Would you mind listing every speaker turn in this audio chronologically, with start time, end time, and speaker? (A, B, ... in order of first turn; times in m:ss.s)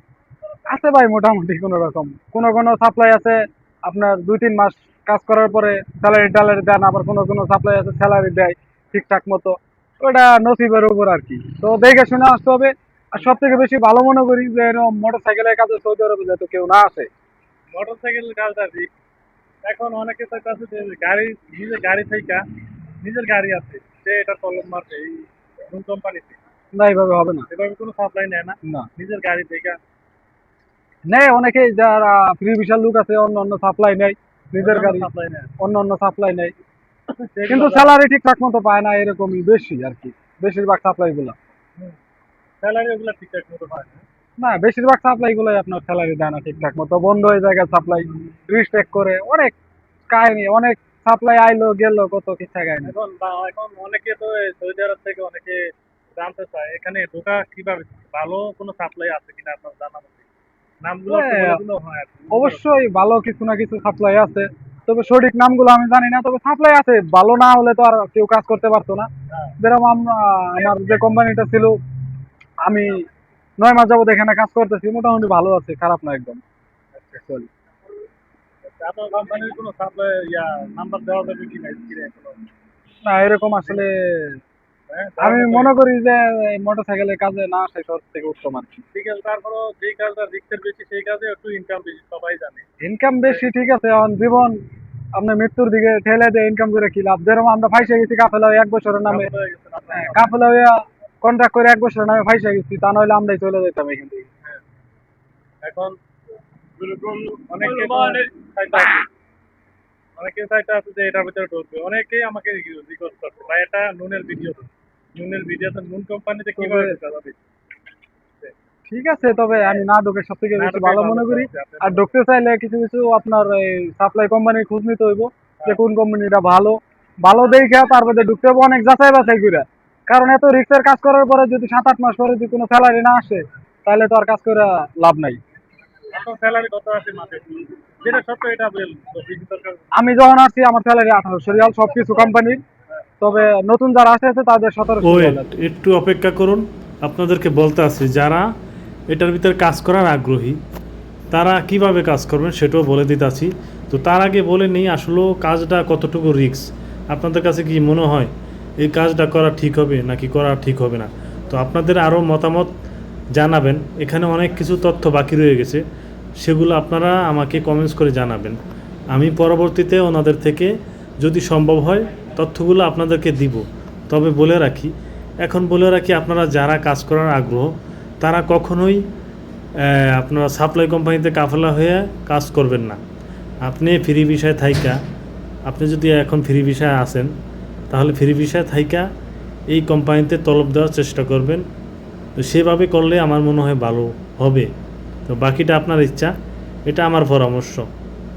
0:00.7-0:17.1 A
0:17.7-0:18.9 B
0:19.6-0:22.4 B
0:23.0-0:26.4 B
0:26.7-0:27.5 A
0:27.5-0:29.8 B
0:31.1-0:35.1 A
0:34.6-0:35.5 B
0:35.6-0:36.5 A
0:37.3-0:38.0 B
0:37.4-0:41.4 A
0:42.6-0:44.0 B
0:44.4-0:49.6 A
0:50.1-0:52.9 A
0:52.8-1:00.2 B
1:00.8-1:02.7 B
1:01.1-1:01.6 A
1:02.3-1:09.1 A
1:09.3-1:09.6 B
1:09.6-1:11.8 A
1:12.6-1:13.1 A
1:13.6-1:16.4 A
1:17.0-1:17.2 B
1:17.2-1:17.5 A
1:18.8-1:22.5 B
1:23.0-1:24.4 A
1:24.9-1:25.7 B
1:25.2-1:28.8 A
1:28.9-1:32.7 B
1:32.8-1:34.6 A
1:35.2-1:39.3 A
1:39.0-1:40.4 B
1:39.9-1:44.3 A
1:45.6-1:46.0 B
1:46.8-1:49.1 B
1:50.2-1:57.4 B
1:56.6-1:57.0 A
1:58.9-2:15.4 A
2:00.6-2:02.1 B
2:16.1-2:19.9 B
2:19.9-2:22.6 A
2:23.2-2:25.5 A
2:25.0-2:28.5 C
2:29.1-2:30.6 C
2:31.3-2:42.7 C
2:43.3-2:45.8 C
2:46.4-2:48.6 C
2:49.1-2:59.0 C
2:59.8-3:03.0 C
3:03.6-3:05.0 C
3:05.7-3:07.3 C
3:07.9-3:09.1 C
3:09.7-3:11.6 C
3:12.4-3:14.7 C
3:15.3-3:16.3 C
3:16.9-3:17.9 C